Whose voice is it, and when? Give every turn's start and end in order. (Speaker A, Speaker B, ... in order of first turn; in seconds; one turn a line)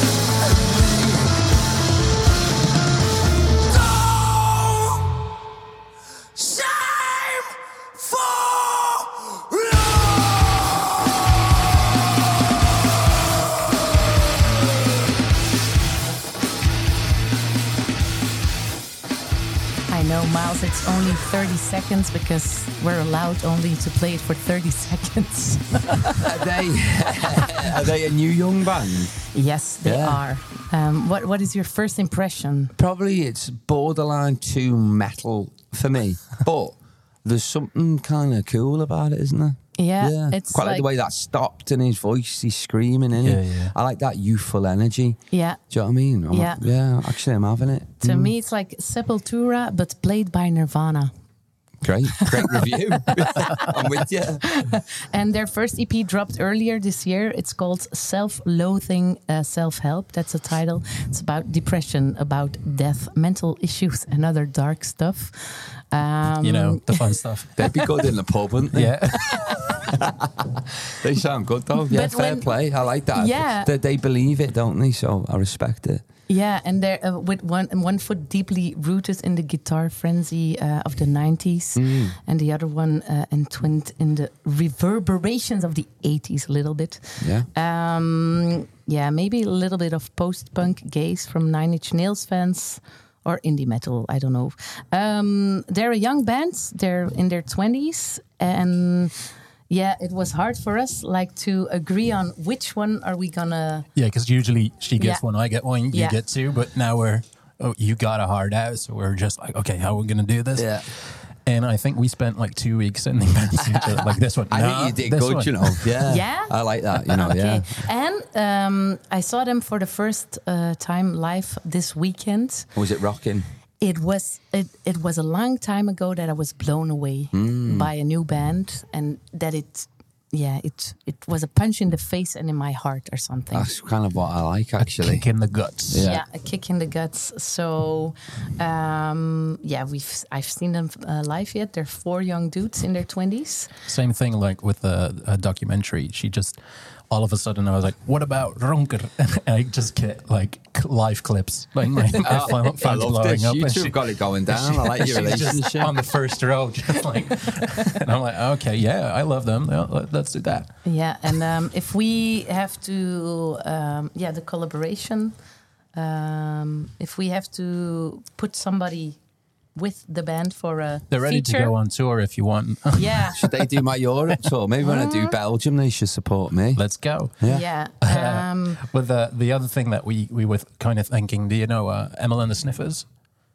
Speaker A: 4.5-5.0
Speaker A: 6.4-7.5
Speaker A: 8.3-9.3
Speaker B: 19.9-26.4
Speaker A: 26.2-29.2
Speaker B: 29.3-32.7
Speaker A: 29.8-30.2
Speaker A: 32.8-48.3
Speaker B: 39.8-40.9
Speaker C: 43.2-43.8
Speaker B: 45.3-45.7
Speaker B: 46.3-46.6
Speaker B: 48.0-51.1
Speaker A: 51.8-54.5
Speaker B: 53.2-53.8
Speaker B: 54.4-67.2
Speaker C: 66.4-67.7
Speaker A: 67.6-69.2
Speaker C: 68.7-69.8
Speaker B: 69.3-69.8
Speaker A: 69.9-76.0
Speaker B: 71.9-72.6
Speaker B: 73.1-73.7
Speaker B: 76.3-103.9
Speaker A: 81.8-82.2
Speaker A: 87.2-87.5
Speaker C: 104.0-116.0
Speaker B: 105.0-106.2
Speaker A: 110.6-110.9
Speaker A: 113.7-117.9
Speaker B: 116.1-116.6
Speaker B: 117.2-122.7
Speaker A: 122.8-123.5
Speaker B: 123.8-133.7
Speaker A: 127.3-127.9
Speaker A: 133.5-135.3
Speaker C: 134.8-136.1
Speaker A: 135.9-136.2
Speaker B: 136.0-143.7
Speaker C: 143.9-161.4
Speaker A: 152.2-156.0
Speaker B: 160.8-165.3
Speaker B: 165.9-169.2
Speaker B: 169.8-171.8
Speaker C: 171.1-173.6
Speaker B: 173.0-173.5
Speaker A: 173.4-177.6
Speaker B: 174.8-175.3
Speaker C: 176.8-183.1
Speaker B: 177.4-178.8